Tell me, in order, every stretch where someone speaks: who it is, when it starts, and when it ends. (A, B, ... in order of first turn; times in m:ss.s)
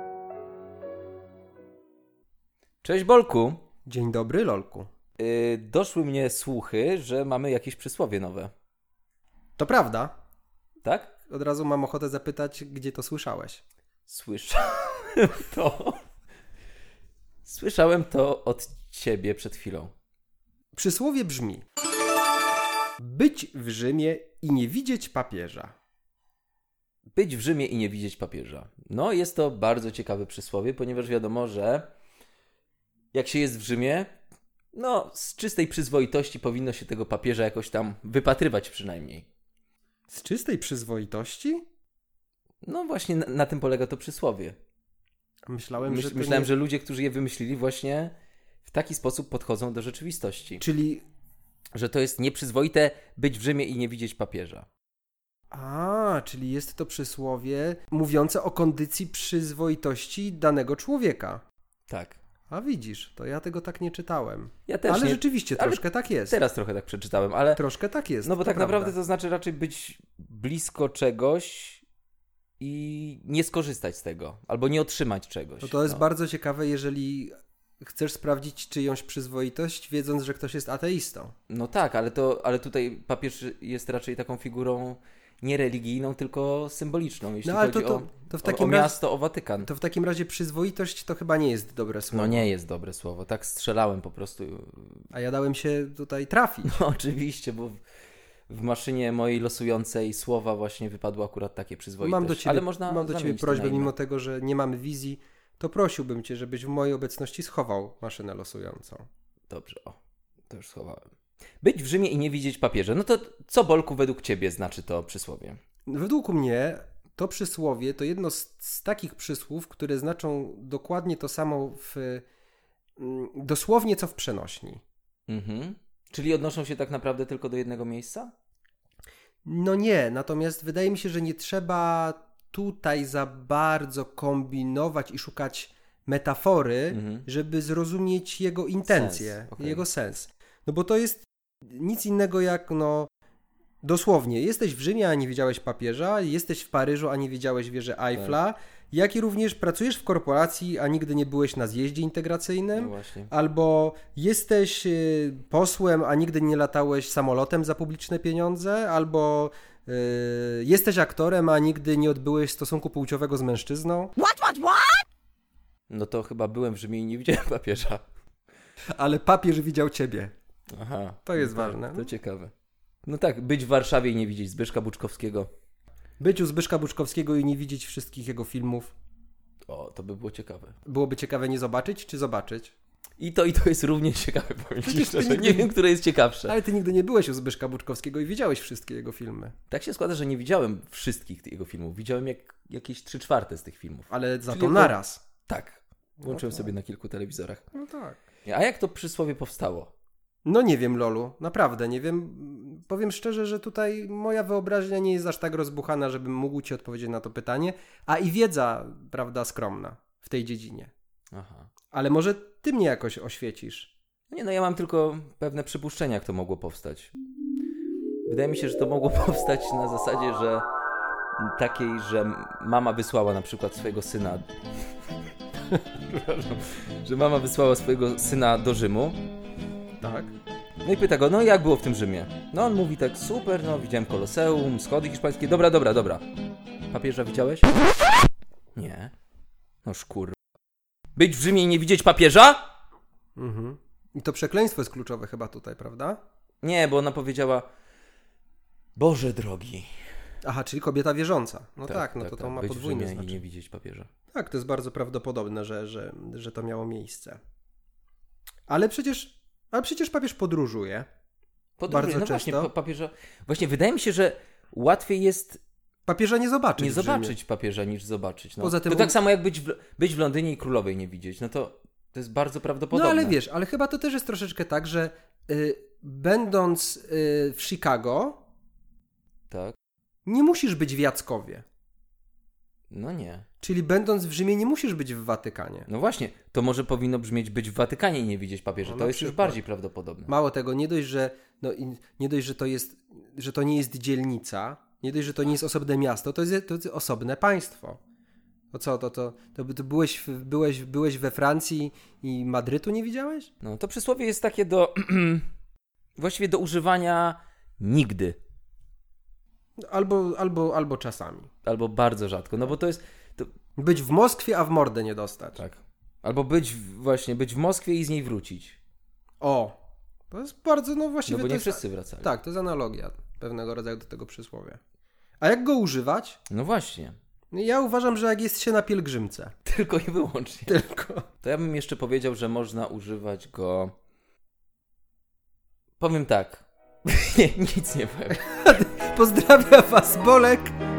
0:02.8-0:03.6 A
0:03.9-0:04.9 B
0:05.2-0:08.5 A
0:09.6-0:10.1 B
0:10.8-0:11.1 A
0:11.3-0:13.6 B
0:14.1-0:16.0 A
0:17.4-0:19.9 A
0:20.8-0:21.6 B
0:23.0-0:25.7 B
0:27.1-0:31.9 A
0:33.1-0:34.2 A
0:34.7-0:39.3 A
0:40.1-0:41.6 B
0:42.6-0:44.6 A
0:45.5-0:46.5 B
0:45.8-0:48.1 A
0:48.6-0:50.6 A
0:50.6-0:51.0 B
0:51.8-0:54.7 A
0:55.5-1:01.4 B
1:01.9-1:02.2 A
1:02.5-1:06.4 B
1:04.7-1:07.6 A
1:07.6-1:09.0 B
1:08.2-1:11.8 A
1:12.6-1:16.0 A
1:15.6-1:17.3 B
1:17.8-1:21.3 B
1:21.5-1:29.7 A
1:27.4-1:29.0 B
1:29.6-1:32.5 B
1:32.1-1:35.1 A
1:35.1-1:36.7 B
1:36.6-1:37.8 A
1:38.5-1:43.9 A
1:42.0-1:49.0 B
1:49.5-1:50.0 A
1:50.5-1:51.0 A
1:51.6-1:55.6 A
1:55.9-2:02.2 B
2:03.0-2:04.8 B
2:05.3-2:08.3 A
2:09.5-2:23.1 B
2:16.9-2:17.3 A
2:18.8-2:19.8 A
2:23.8-2:44.1 B
2:32.8-2:33.3 A
2:44.3-2:45.0 A
2:45.9-2:48.0 A
2:49.0-2:50.3 B
2:50.7-2:52.5 A
2:51.2-2:52.1 B
2:53.0-2:55.5 A
2:56.2-2:58.9 B
2:59.7-3:00.8 A
3:00.8-3:02.8 B
3:03.2-3:06.6 A
3:04.8-3:05.7 B
3:06.4-3:09.5 B
3:09.7-3:17.6 A
3:14.1-3:15.2 B
3:16.2-3:16.7 B
3:17.7-3:18.2 B
3:18.4-3:19.9 A
3:20.4-3:30.9 B
3:31.3-3:31.7 A
3:31.9-3:33.9 B
3:34.3-3:37.1 A
3:38.2-3:40.7 A
3:41.4-3:44.5 A
3:45.7-3:49.2 A
3:50.0-3:50.3 B
3:50.8-3:56.2 A
3:56.9-3:57.7 A
3:58.8-3:59.1 A
3:59.8-4:00.4 A
4:01.2-4:02.6 A
4:03.4-4:06.2 B
4:06.6-4:07.7 A
4:09.0-4:09.9 A
4:10.4-4:13.4 B
4:11.8-4:14.1 A
4:14.3-4:17.4 B
4:18.7-4:21.0 B
4:21.8-4:25.6 A
4:21.9-4:22.7 B
4:26.1-4:27.4 B
4:26.8-4:33.4 A
4:28.6-4:29.2 B
4:32.9-4:38.4 B
4:39.5-4:39.8 A
4:40.2-4:41.6 B
4:42.9-4:43.4 A
4:43.6-4:45.9 B
4:45.9-4:50.3 A
4:48.8-4:49.6 B
4:50.3-4:58.0 B
4:58.7-5:03.5 B
5:03.6-5:05.5 A
5:06.2-5:08.4 A
5:09.8-5:11.5 B
5:11.6-5:13.5 A
5:13.8-5:15.6 B
5:15.6-5:18.8 A
5:19.4-5:19.7 B
5:20.3-5:24.8 B
5:21.2-5:22.3 A
5:25.4-5:26.4 B
5:26.5-5:27.2 A
5:27.5-5:29.6 B
5:29.6-5:30.8 A
5:30.7-5:31.2 B
5:31.4-5:33.9 A
5:36.0-5:38.5 A
5:38.4-5:40.7 B